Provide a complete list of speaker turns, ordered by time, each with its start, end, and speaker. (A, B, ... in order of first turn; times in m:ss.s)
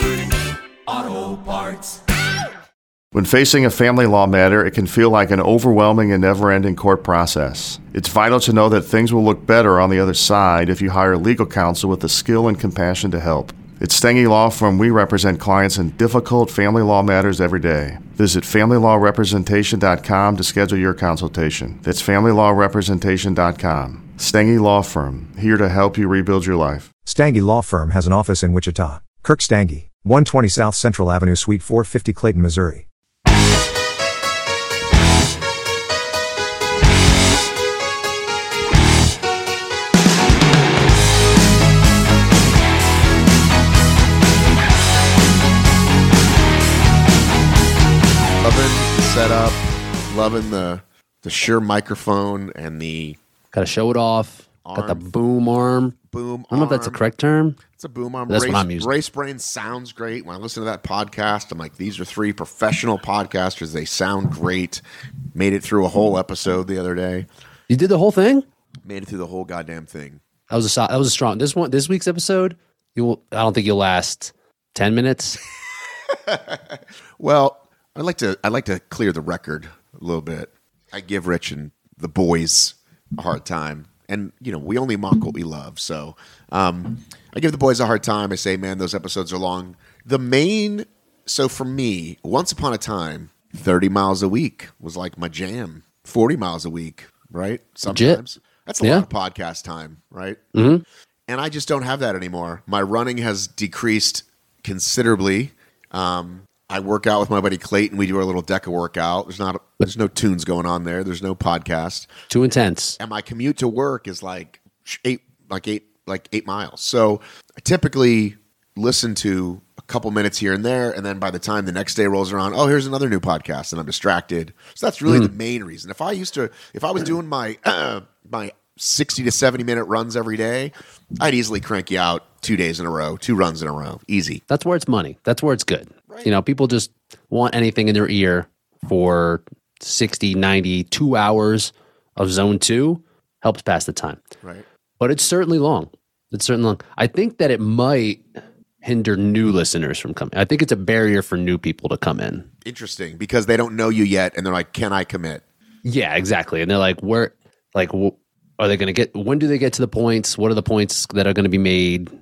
0:00.9-0:02.0 A
0:03.1-0:26.9 B
0:27.1-0:32.9 C
0:48.4-0:53.2 D
0:53.5-0:56.0 A
0:54.6-0:55.0 D
0:56.1-0:57.0 D
0:56.5-0:57.6 A
0:57.7-1:04.8 D
0:58.3-0:58.9 A
1:05.4-1:07.3 D
1:07.7-1:08.4 A
1:08.9-1:10.2 D
1:10.5-1:15.4 A
1:16.1-1:40.4 D
1:37.9-1:38.2 A
1:38.8-1:39.1 A
1:40.6-1:40.8 A
1:41.3-1:52.1 D
1:52.3-1:53.0 A
1:53.0-2:14.4 D
2:05.1-2:05.3 A
2:14.5-2:24.2 A
2:16.1-2:16.4 D
2:25.0-2:28.2 A
2:28.8-2:32.5 A
2:32.6-2:35.4 D
2:35.8-2:42.1 A